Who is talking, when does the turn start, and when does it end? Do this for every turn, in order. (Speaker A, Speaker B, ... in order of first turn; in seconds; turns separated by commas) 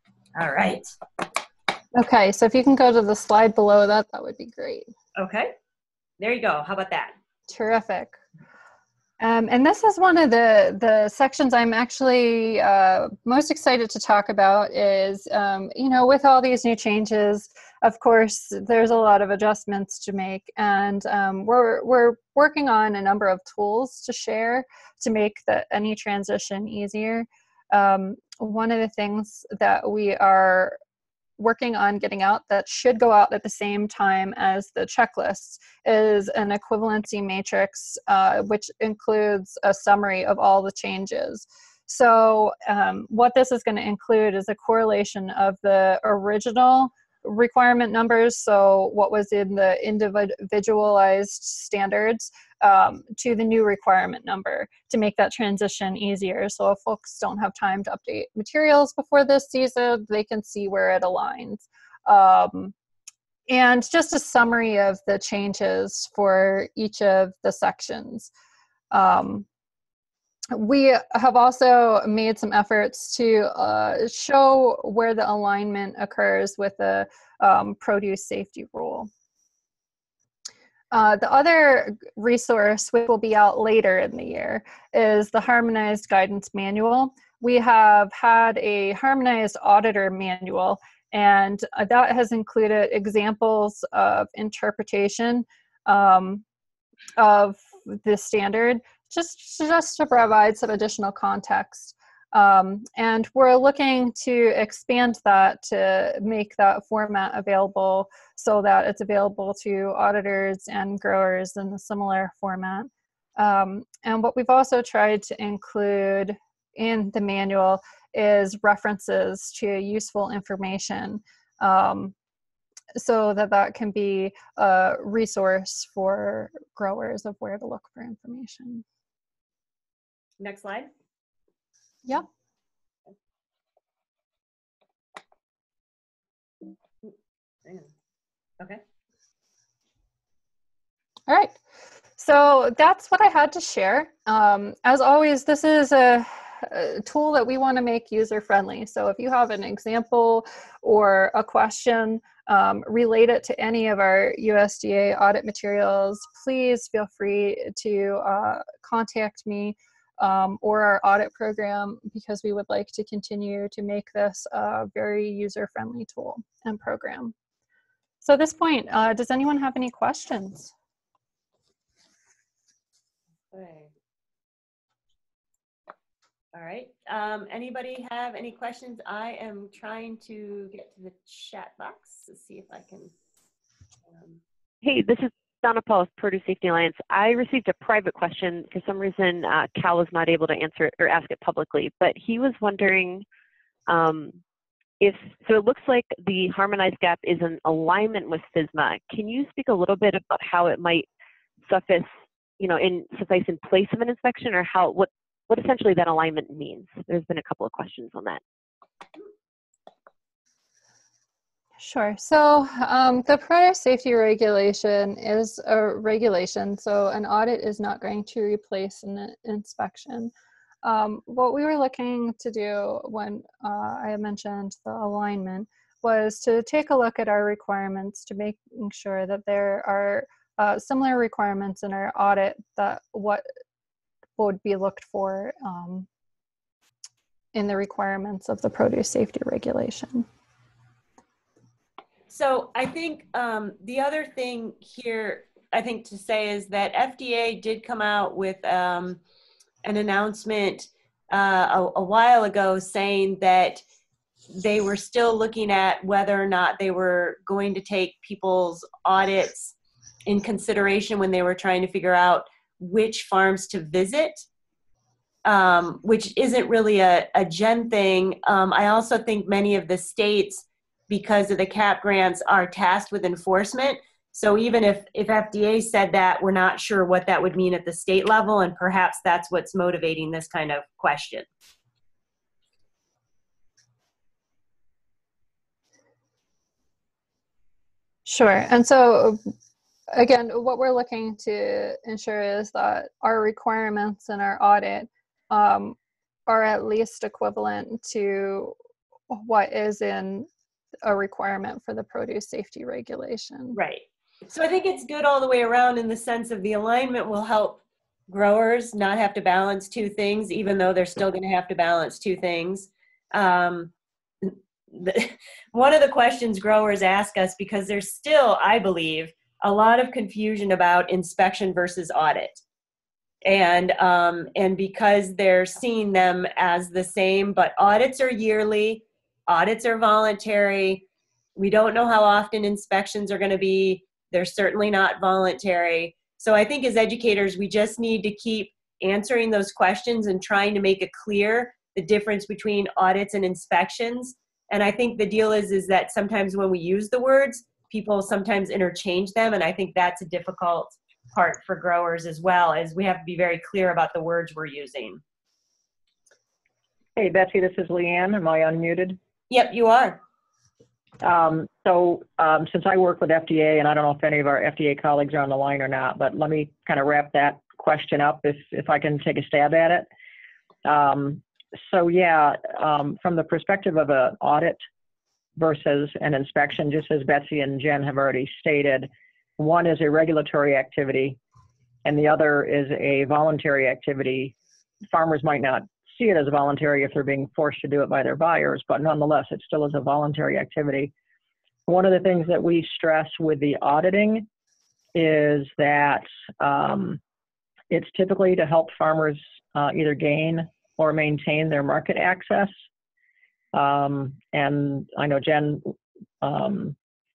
Speaker A: 0.3-0.9, Speaker B: 1.9-4.9, Speaker A: 5.2-5.5, Speaker A: 6.2-7.1, Speaker B: 7.5-8.2, Speaker B: 9.2-30.8, Speaker B: 31.4-62.7, Speaker B: 63.5-68.3, Speaker B: 68.9-69.5, Speaker B: 70.5-79.1, Speaker B: 80.9-96.4, Speaker B: 97.2-122.1, Speaker B: 122.9-128.8, Speaker A: 130.4-130.9, Speaker B: 141.3-141.6, Speaker B: 142.2-167.3, Speaker B: 168.2-170.7, Speaker A: 173.5-173.9, Speaker A: 176.5-183.1, Speaker C: 184.8-193.2, Speaker C: 193.9-194.4, Speaker C: 195.0-201.1, Speaker C: 201.7-202.1, Speaker C: 202.6-208.4, Speaker B: 211.8-220.3, Speaker B: 220.8-233.4, Speaker B: 234.4-236.1, Speaker B: 237.5-240.2, Speaker A: 242.3-249.2, Speaker A: 249.8-253.8, Speaker A: 254.5-259.7, Speaker A: 260.2-264.4, Speaker A: 265.4-281.4, Speaker B: 288.2-289.4, Speaker B: 290.1-298.8, Speaker B: 299.3-300.5, Speaker B: 301.0-303.8, Speaker A: 303.7-313.9, Speaker A: 314.4-322.6, Speaker A: 323.4-331.0, Speaker A: 331.6-355.2, Speaker D: 357.1-359.2, Speaker A: 359.5-360.2, Speaker D: 361.2-370.1, Speaker D: 370.8-374.8, Speaker D: 375.6-381.4, Speaker D: 382.0-384.6, Speaker D: 385.1-391.1, Speaker D: 391.9-394.5, Speaker D: 395.1-397.2, Speaker D: 397.9-402.7, Speaker D: 403.7-406.9